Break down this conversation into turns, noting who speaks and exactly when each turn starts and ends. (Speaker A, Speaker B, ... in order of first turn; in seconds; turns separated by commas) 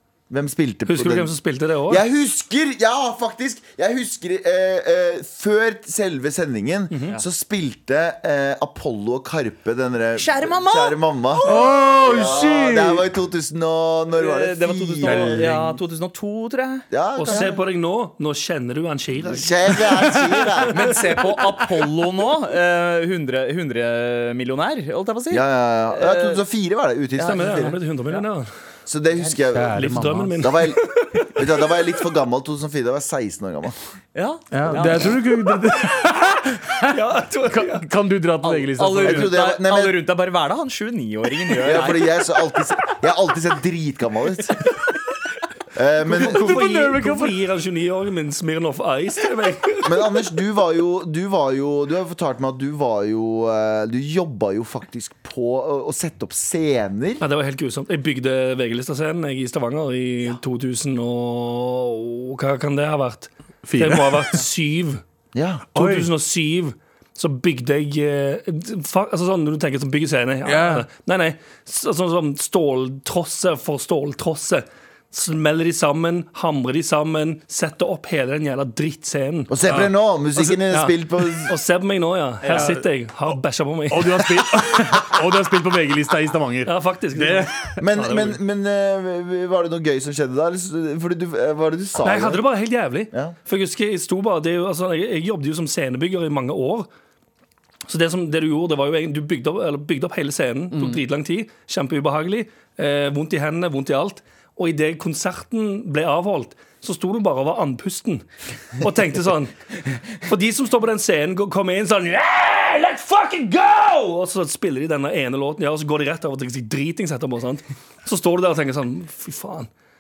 Speaker A: 0.3-1.3, Speaker B: 0.9-2.0, Speaker A: 1.9-15.8, Speaker C: 10.2-11.7, Speaker D: 11.4-13.1, Speaker C: 14.1-16.8, Speaker D: 15.0-15.6, Speaker A: 16.9-17.6, Speaker B: 17.2-19.9, Speaker A: 19.2-20.8, Speaker C: 20.7-26.4, Speaker A: 25.3-27.8, Speaker B: 27.2-28.5, Speaker A: 28.9-33.8, Speaker D: 29.5-30.5, Speaker B: 29.8-31.9, Speaker C: 34.1-35.2, Speaker D: 34.5-39.3, Speaker B: 36.9-37.8, Speaker C: 38.4-42.1, Speaker A: 39.0-40.0, Speaker A: 41.6-44.6, Speaker A: 45.7-46.6, Speaker B: 46.1-50.1, Speaker D: 46.1-47.4, Speaker A: 49.8-57.2, Speaker B: 57.2-65.0, Speaker D: 63.6-64.3, Speaker A: 65.3-65.7, Speaker B: 65.7-79.6, Speaker D: 65.8-66.1, Speaker D: 70.5-70.8, Speaker A: 79.5-81.5, Speaker B: 80.4-84.5, Speaker D: 82.5-82.8, Speaker D: 83.9-87.8, Speaker B: 86.7-88.4, Speaker A: 87.8-92.4, Speaker B: 92.0-96.9, Speaker B: 97.9-108.3, Speaker B: 108.8-109.5, Speaker B: 110.2-119.7